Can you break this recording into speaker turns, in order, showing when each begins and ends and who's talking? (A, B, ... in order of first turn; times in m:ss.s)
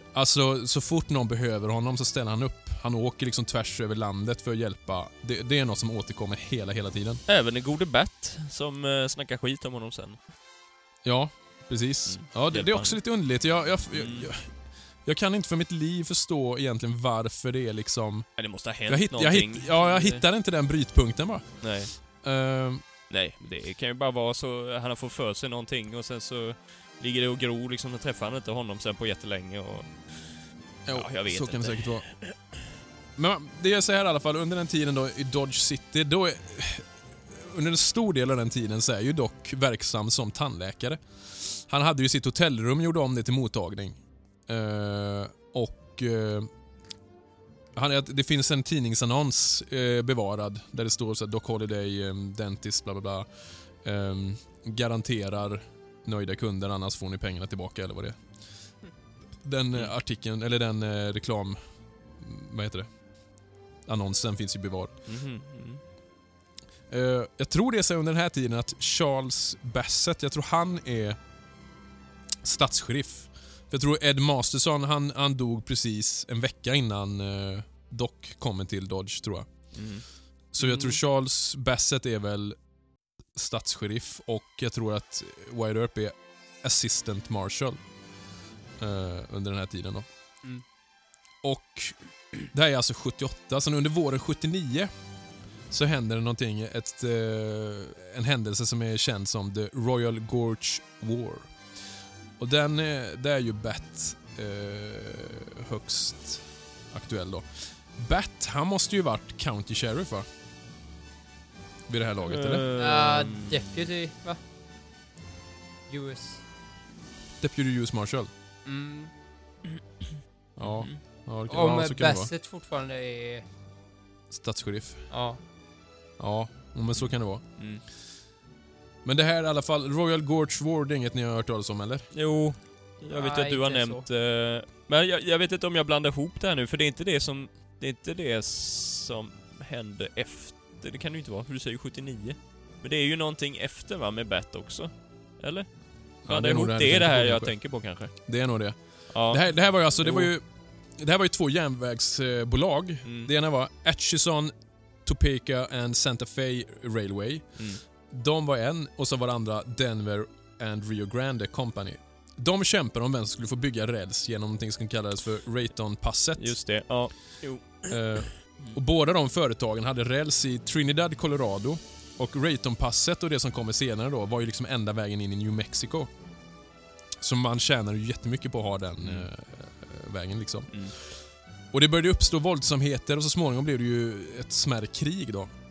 0:00.1-0:07.2 A
0:07.3-0:10.2 B
0:11.0-0:22.8 A
0:12.1-0:13.0 B
0:13.9-0:14.3 B
0:18.4-0:20.2 B
0:21.6-0:22.0 B
0:23.1-0:32.6 B
0:30.8-0:32.1 A
0:33.2-0:46.5 A
0:47.8-0:58.2 A
0:59.4-1:01.6 A
1:02.2-1:03.0 A
1:03.8-1:05.0 A
1:05.1-1:05.8 B
1:06.9-1:11.2 A
1:12.4-1:19.7 A
1:19.7-1:20.1 B
1:20.5-1:22.6 A
1:23.3-1:27.8 A
1:28.8-1:30.1 A
1:31.4-1:34.9 A
1:35.7-1:41.6 A
1:42.4-1:50.3 A
1:51.9-1:52.6 A
1:52.2-1:53.8 B
1:52.8-1:54.4 C
1:55.9-1:56.4 C
1:57.4-1:58.3 A
1:58.7-1:59.1 C
2:00.6-2:02.3 A
2:00.6-2:01.0 B
2:01.5-2:03.5 C
2:04.3-2:05.1 A
2:05.1-2:05.4 C
2:06.2-2:07.4 A
2:06.9-2:07.8 B
2:09.0-2:12.1 A
2:12.1-2:28.1 B
2:13.1-2:14.0 C
2:26.2-2:30.4 A
2:29.1-2:30.3 B
2:31.0-2:46.6 A
2:33.0-2:33.3 B
2:37.6-2:37.8 B
2:46.4-2:48.8 B
2:47.8-2:56.1 A
2:57.2-3:05.5 A
2:59.0-2:59.3 B